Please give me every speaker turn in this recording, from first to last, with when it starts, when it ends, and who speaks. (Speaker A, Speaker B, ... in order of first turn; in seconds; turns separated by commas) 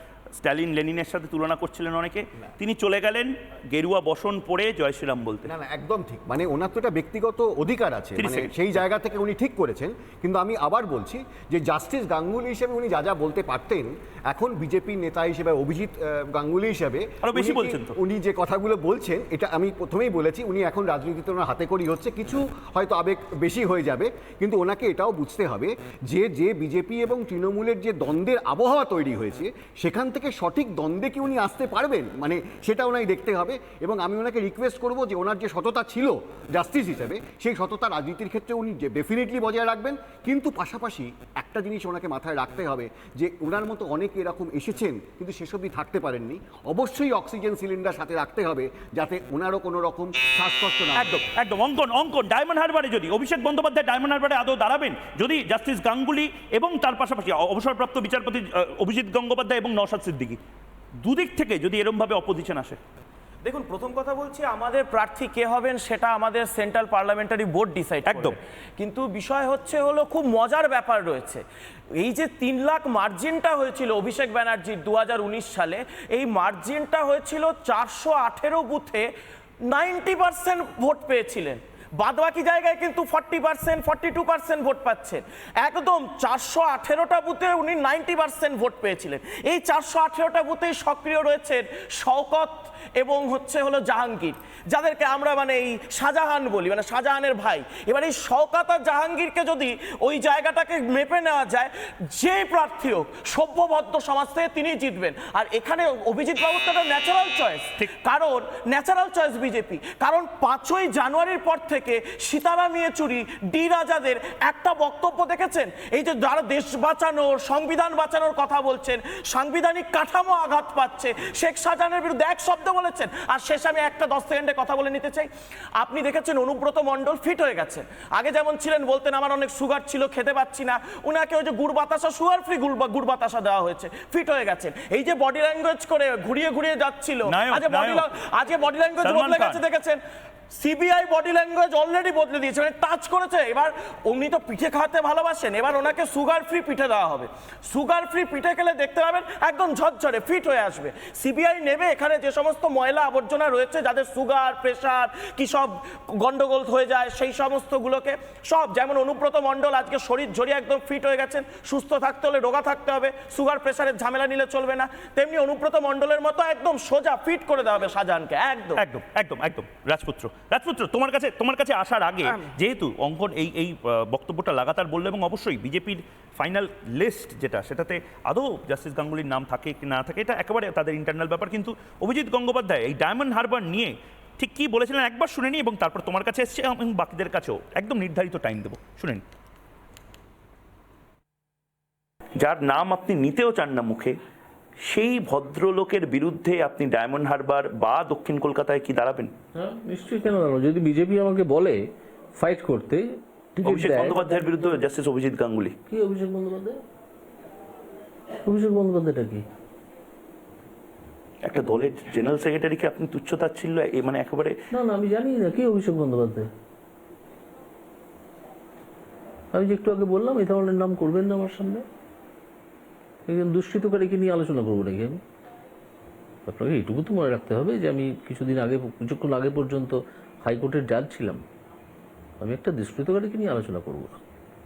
Speaker A: 0.3-5.5, Speaker B: 5.4-51.2, Speaker A: 8.2-8.5, Speaker A: 17.2-17.9, Speaker A: 51.0-60.4, Speaker A: 61.0-62.8, Speaker C: 63.4-71.4, Speaker A: 68.0-68.3, Speaker C: 72.0-79.0, Speaker C: 79.7-125.3, Speaker C: 125.8-140.0, Speaker A: 137.3-138.1, Speaker A: 139.0-139.6, Speaker C: 140.5-168.8, Speaker A: 168.8-189.2, Speaker A: 192.4-194.2, Speaker A: 194.9-199.3, Speaker D: 199.6-201.8, Speaker D: 202.4-204.2, Speaker A: 203.6-205.7, Speaker D: 205.9-206.8, Speaker D: 208.4-209.4, Speaker A: 211.4-214.5, Speaker D: 214.7-216.5, Speaker D: 219.5-221.8, Speaker D: 223.3-225.2, Speaker D: 226.4-231.4, Speaker D: 232.4-234.2